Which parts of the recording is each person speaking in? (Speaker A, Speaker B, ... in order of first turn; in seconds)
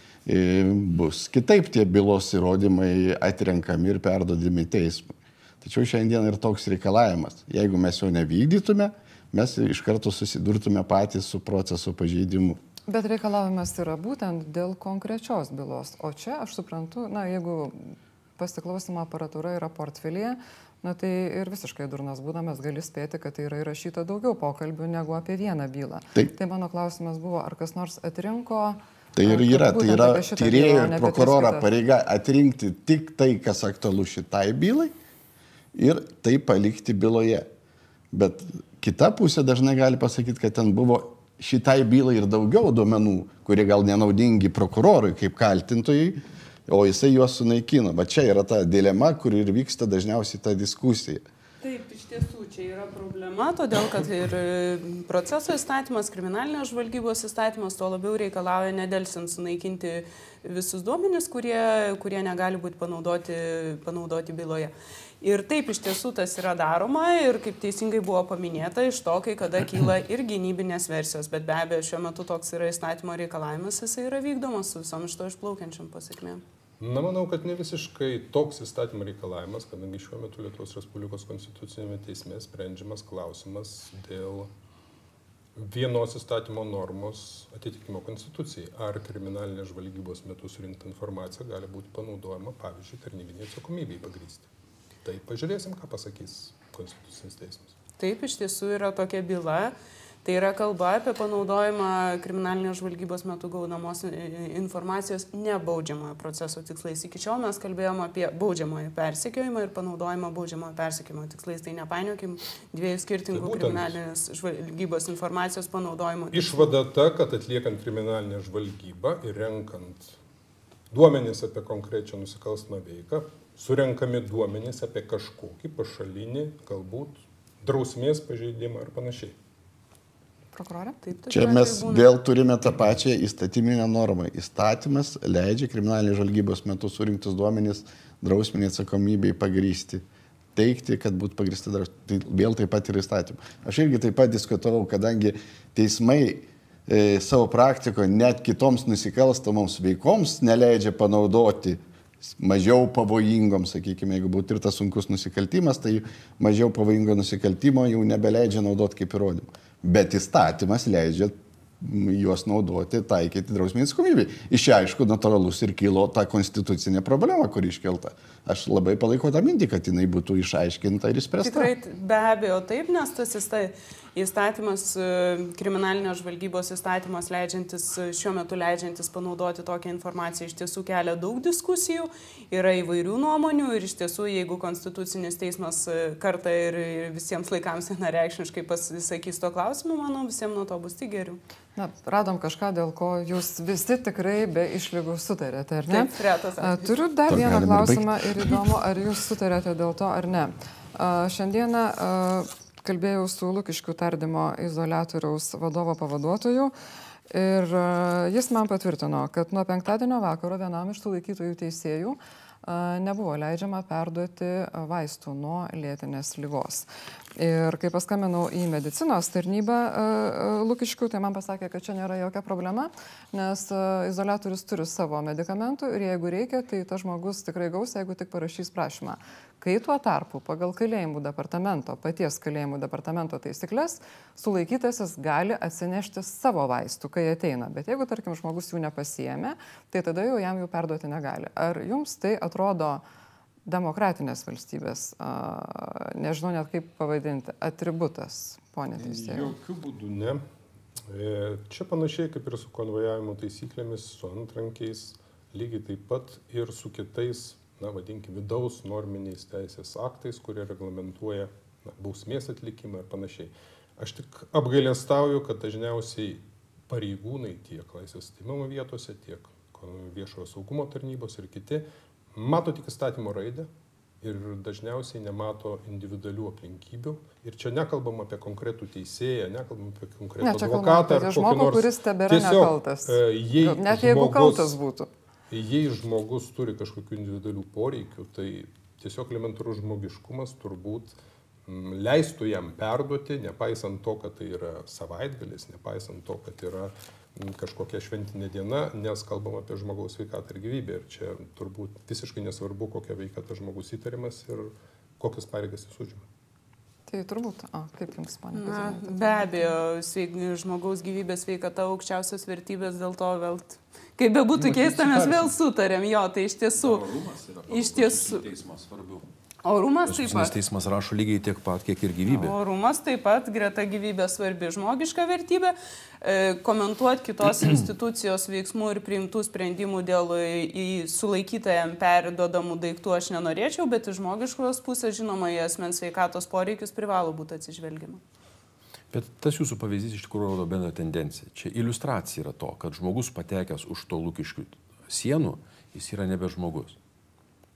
Speaker A: 0.2-12.6, 29.1-34.9, 35.7-37.5, 38.1-51.2, 131.3-140.0, 140.5-171.7, 197.3-198.5
Speaker B: 12.9-31.7, 130.5-131.0, 191.8-206.7, 207.3-243.0, 243.7-249.5, 280.4-285.1, 307.1-309.8
Speaker C: 51.6-76.4, 98.0-116.7, 131.0-132.1, 171.4-191.4, 195.9-196.9, 308.5-317.0, 317.7-318.5, 319.6-320.6, 322.3-338.2
Speaker D: 76.8-84.5, 85.6-94.5, 95.0-97.8, 113.3-114.0, 116.3-120.2, 120.9-129.3, 248.9-250.4, 251.1-273.7, 274.2-284.8, 285.5-306.3
Speaker E: 314.5-315.5, 316.7-319.2, 320.0-322.6, 339.1-347.0